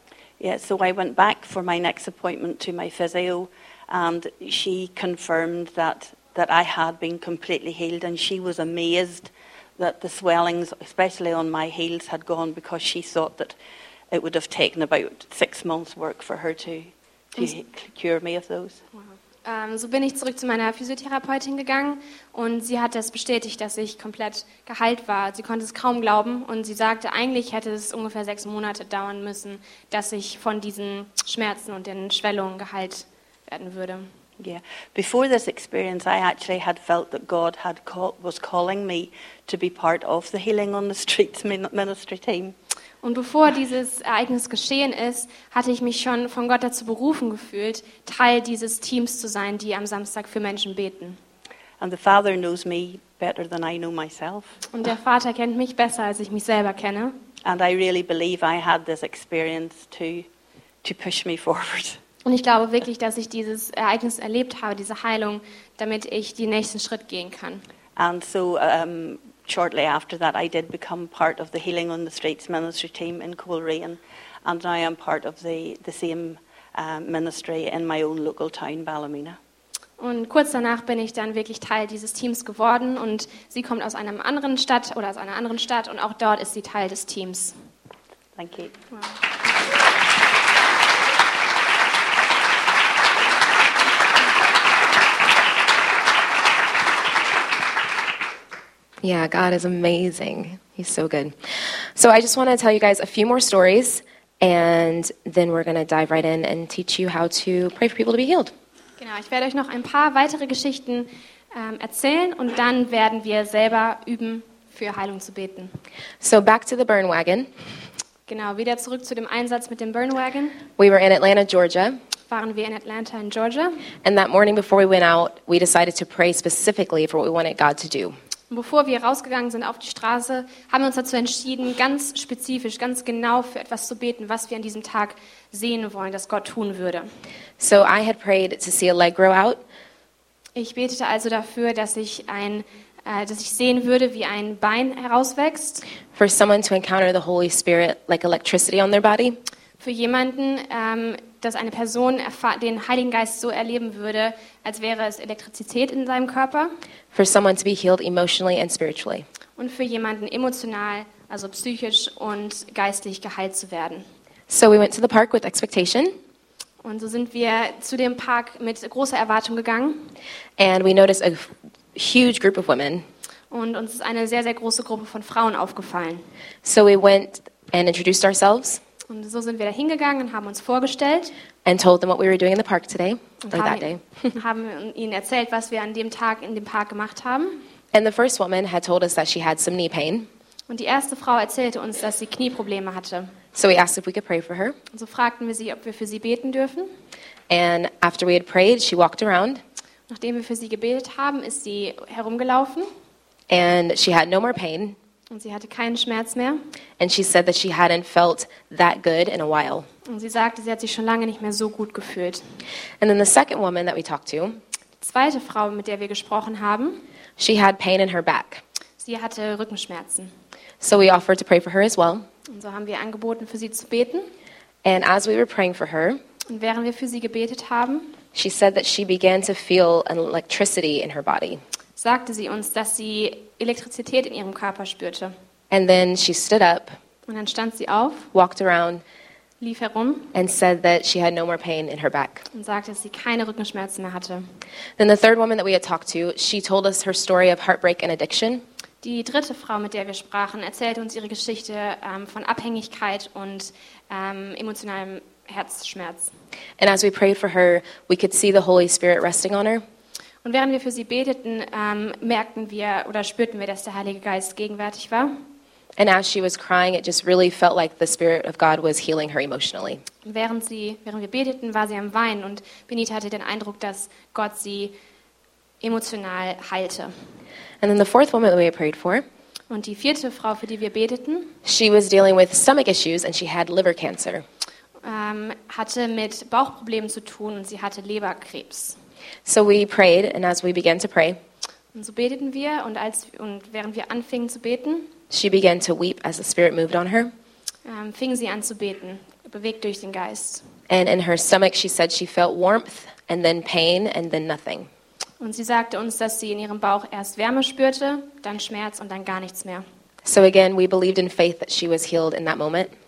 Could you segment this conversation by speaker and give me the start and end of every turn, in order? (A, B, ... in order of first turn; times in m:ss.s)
0:00.4-0:13.6 A
0:14.1-0:18.8 A
0:19.0-0:34.1 B
0:34.4-0:42.6 A
0:43.0-0:51.2 B
0:51.8-0:54.6 A
0:54.7-0:57.2 B
0:57.4-1:00.3 A
1:00.8-1:02.0 A
1:02.2-1:07.6 B
1:08.0-1:19.4 A
1:20.0-1:27.6 B
1:28.4-1:28.7 A
1:28.9-1:29.2 B
1:39.0-1:48.5 C
1:49.0-1:55.8 B
1:56.2-1:57.5 C
1:58.3-2:00.6 B
2:00.8-2:02.0 C
2:02.3-2:03.9 B
2:04.0-2:08.2 C
2:08.5-2:17.1 B
2:17.6-2:19.6 C
2:20.6-2:25.8 B
2:26.1-2:29.4 C
2:29.8-2:36.7 B
2:37.1-2:39.3 C
2:39.6-2:44.0 B
2:44.5-2:46.2 C
2:46.8-2:50.1 B
2:50.6-2:53.1 C
2:53.5-2:56.2 B
2:56.6-2:58.8 C
2:59.1-3:01.3 B
3:01.6-3:04.3 C
3:03.4-3:07.6 B
3:07.9-3:10.3 C
3:10.7-3:13.3 B
3:13.5-3:14.8 C
3:14.9-3:16.9 B
3:17.5-3:19.6 C
3:20.1-3:22.9 B
3:23.5-3:25.0 C
3:25.3-3:26.6 B
3:27.0-3:29.9 C
3:30.0-3:32.4 B
3:33.0-3:34.6 C
3:35.0-3:37.0 B
3:37.4-3:38.6 C
3:39.0-3:40.3 B
3:40.8-3:42.3 C
3:42.5-3:44.3 B
3:44.8-3:46.2 C
3:46.5-3:48.2 B
3:48.3-3:51.6 C
3:52.0-3:55.3 B
3:55.7-3:56.9 C
3:57.3-3:58.3 B
3:58.3-3:59.0 C
3:59.6-4:00.3 B
4:00.3-4:02.4 C
4:02.5-4:04.5 B
4:05.0-4:08.6 C
4:09.0-4:16.3 B
4:16.8-4:19.8 C
4:20.4-4:25.4 B
4:26.0-4:30.0 C
4:30.2-4:35.0 B
4:35.8-4:37.1 B
4:37.8-4:39.2 C
4:39.7-4:41.6 B
4:41.6-4:44.4 C
4:45.0-4:49.0 B
4:49.4-4:51.4 C
4:51.9-4:55.1 B
4:55.3-4:57.3 C
4:57.8-5:00.6 B
5:00.9-5:04.9 C
5:05.4-5:09.8 B
5:10.2-5:12.9 C